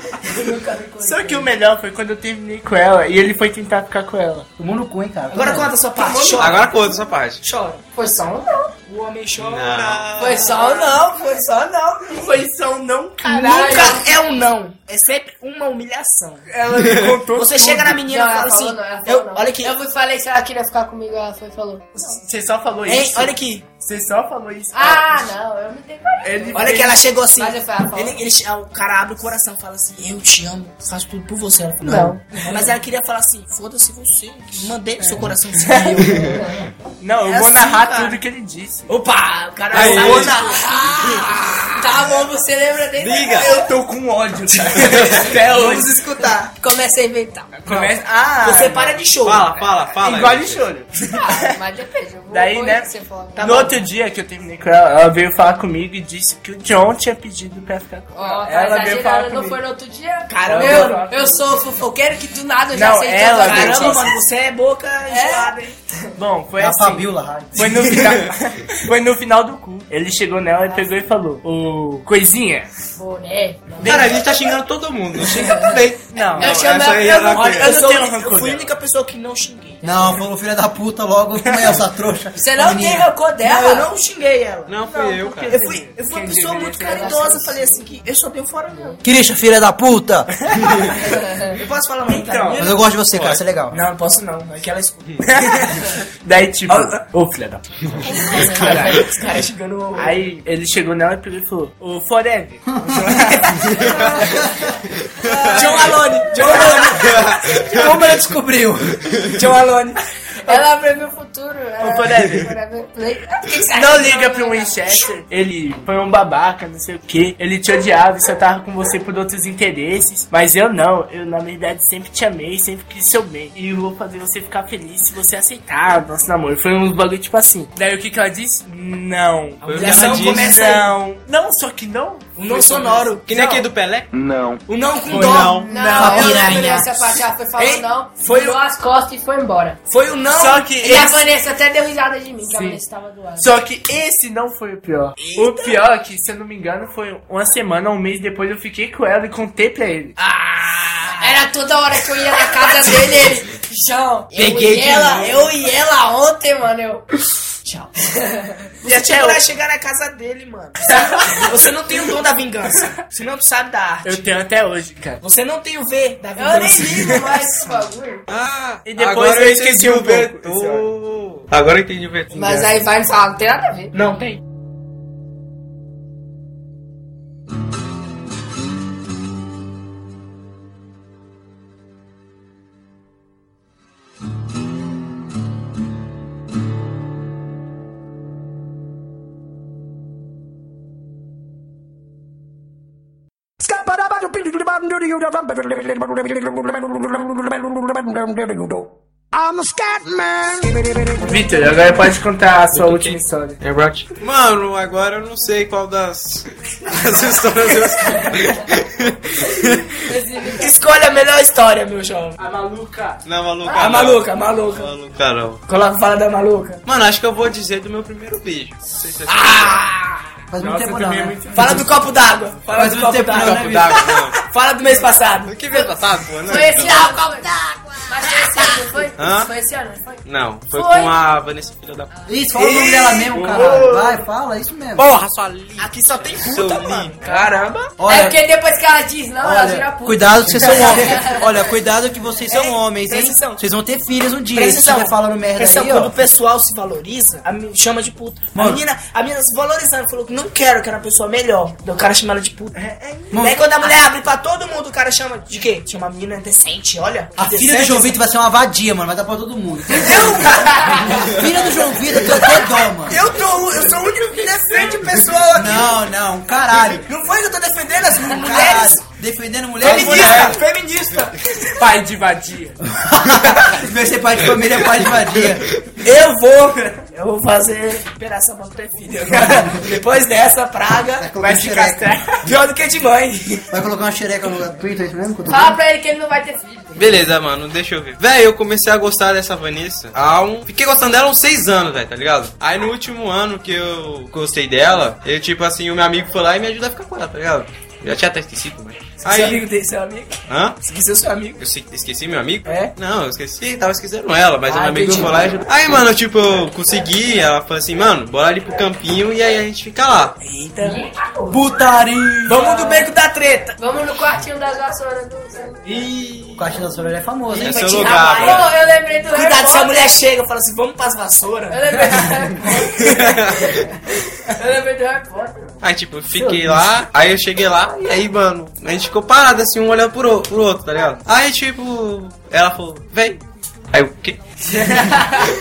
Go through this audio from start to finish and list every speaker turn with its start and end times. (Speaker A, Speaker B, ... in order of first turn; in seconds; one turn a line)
Speaker A: 0.2-1.5
Speaker B: 1.0-4.5
Speaker C: 4.6-5.7
Speaker D: 5.3-6.8
Speaker B: 6.0-6.6
Speaker E: 6.4-7.4
Speaker D: 7.4-7.8
Speaker A: 8.0-8.7
Speaker D: 8.9-12.1
Speaker E: 9.4-10.4
Speaker A: 10.2-11.2
Speaker B: 12.0-14.0
Speaker A: 13.2-14.1
Speaker D: 13.3-16.5
Speaker B: 16.5-18.0
Speaker D: 17.3-19.7
Speaker A: 18.1-22.0
Speaker B: 22.1-25.3
Speaker D: 22.9-23.6
Speaker A: 24.7-28.2
Speaker B: 26.2-27.0
Speaker D: 26.5-36.6
Speaker A: 31.8-32.2
Speaker B: 35.0-36.1
Speaker B: 37.0-38.9
Speaker D: 37.2-38.2
Speaker D: 38.9-41.7
Speaker E: 39.7-40.4
Speaker B: 39.7-40.4
Speaker A: 40.2-43.6
Speaker E: 43.0-43.5
Speaker B: 43.4-46.0
Speaker D: 44.5-46.5
Speaker A: 46.6-47.5
Speaker B: 47.5-49.0
Speaker D: 48.4-49.7
Speaker E: 49.2-50.7
Speaker B: 49.9-51.3
Speaker A: 51.1-53.7
Speaker B: 52.3-59.6
Speaker D: 53.4-53.8
Speaker A: 58.1-64.1
Speaker D: 60.3-61.1
Speaker B: 60.5-61.5
Speaker B: 62.7-64.2
Speaker D: 63.4-65.7
Speaker A: 65.1-66.0
Speaker B: 66.2-72.7
Speaker C: 66.6-68.0
Speaker A: 73.0-74.2
Speaker E: 73.8-77.8
Speaker D: 73.8-74.3
Speaker A: 75.3-75.8
Speaker B: 76.1-76.6
Speaker A: 76.4-77.6
Speaker D: 77.3-79.8
Speaker B: 77.3-78.7
Speaker C: 79.8-83.1
Speaker B: 81.5-81.8
Speaker A: 82.3-83.9
Speaker D: 83.4-89.0
Speaker E: 84.7-85.7
Speaker B: 84.9-87.5
Speaker A: 86.8-87.8
Speaker C: 89.0-90.4
Speaker B: 90.4-91.0
Speaker A: 91.0-91.5
Speaker D: 91.4-92.9
Speaker B: 92.1-92.7
Speaker C: 92.5-93.8
Speaker E: 93.1-93.4
Speaker D: 93.7-95.9
Speaker B: 95.2-97.7
Speaker D: 96.7-97.0
Speaker D: 98.0-100.2
Speaker B: 98.3-99.0
Speaker B: 100.0-103.9
Speaker D: 103.5-104.2
Speaker C: 104.2-104.6
Speaker E: 105.0-105.7
Speaker A: 105.2-107.2
Speaker D: 105.5-107.3
Speaker C: 106.4-106.9
Speaker E: 107.0-107.9
Speaker C: 107.6-109.2
Speaker E: 109.0-109.4
Speaker D: 109.3-110.6
Speaker A: 110.5-115.0
Speaker B: 111.8-112.5
Speaker B: 113.7-133.1
Speaker E: 129.6-130.6
Speaker D: 129.7-130.9
Speaker D: 132.3-133.7
Speaker E: 133.2-134.1
Speaker F: 134.1-134.6
Speaker D: 134.7-138.6
Speaker B: 135.1-135.8
Speaker E: 135.1-136.0
Speaker A: 135.7-139.8
Speaker C: 136.0-136.8
Speaker D: 139.9-141.1
Speaker B: 140.3-141.2
Speaker A: 140.8-143.5
Speaker B: 142.5-142.8
Speaker B: 143.4-150.2
Speaker D: 145.2-145.7
Speaker D: 150.2-151.4
Speaker A: 151.1-157.0
Speaker D: 152.4-153.1
Speaker D: 154.3-155.5
Speaker D: 157.7-157.9
Speaker A: 158.0-158.7
Speaker B: 158.8-159.4
Speaker D: 158.8-164.2
Speaker B: 161.1-161.5
Speaker B: 164.0-165.2
Speaker D: 165.2-167.4
Speaker A: 166.4-168.2
Speaker E: 168.3-172.8
Speaker B: 168.8-170.9
Speaker A: 172.3-173.9
Speaker D: 173.9-174.4
Speaker F: 193.6-201.3
Speaker B: 201.2-203.6
Speaker E: 202.7-209.9
Speaker A: 208.2-208.6
Speaker A: 210.0-210.7
Speaker D: 210.6-212.4
Speaker B: 212.4-213.2
Speaker E: 213.2-215.6
Speaker A: 213.6-214.0
Speaker D: 213.8-214.9
Speaker D: 215.7-216.8
Speaker E: 216.8-219.8
Speaker D: 219.3-220.2
Speaker C: 220.5-221.8
Speaker B: 220.6-222.0
Speaker D: 221.5-225.6
Speaker C: 222.7-224.0
Speaker E: 223.3-224.4
Speaker E: 225.5-227.1
Speaker A: 226.4-227.5
Speaker D: 226.7-228.9
Speaker A: 228.1-231.2
Speaker E: 229.2-229.5
Speaker E: 230.2-232.1
Speaker C: 232.2-235.1
Speaker D: 232.6-234.2
Speaker B: 233.3-233.9
Speaker E: 235.0-237.5
Speaker D: 235.8-237.8
Speaker C: 238.0-238.4
Speaker A: 238.1-241.5
Speaker C: 239.4-246.1
Speaker D: 240.6-241.2
Speaker D: 242.5-243.6
Speaker D: 244.5-252.8
Speaker C: 248.5-248.8
Speaker B: 252.7-253.4
Speaker C: 253.3-253.6
Speaker D: 253.3-258.1
Speaker C: 257.4-263.2
Speaker D: 259.9-261.4
Speaker B: 260.5-260.8
Speaker D: 262.1-266.0
Speaker C: 265.5-267.1
Speaker D: 266.7-269.0
Speaker C: 268.1-270.6
Speaker D: 269.8-271.8
Speaker B: 269.8-270.5
Speaker E: 269.9-270.5
Speaker B: 271.8-272.8
Speaker C: 273.0-275.7
Speaker D: 276.0-281.3
Speaker C: 281.2-282.1
Speaker B: 281.4-282.4
Speaker D: 282.4-283.7
Speaker C: 283.7-285.8
Speaker A: 285.5-287.2
Speaker E: 287.0-299.7
Speaker D: 299.2-301.6
Speaker E: 300.5-300.8
Speaker E: 301.6-310.4
Speaker D: 302.7-302.9
Speaker D: 304.6-305.6
Speaker B: 310.4-310.8
Speaker D: 310.7-310.9
Speaker A: 310.8-311.7
Speaker C: 311.5-312.7
Speaker D: 312.5-313.8
Speaker A: 312.6-313.1
Speaker A: 313.8-315.9
Speaker E: 316.3-316.6
Speaker C: 316.6-318.0
Speaker D: 317.5-318.7
Speaker E: 317.6-318.7
Speaker A: 318.0-320.1
Speaker D: 319.3-321.8
Speaker A: 321.7-325.8
Speaker E: 323.2-323.8
Speaker E: 325.8-335.0
Speaker A: 335.1-335.4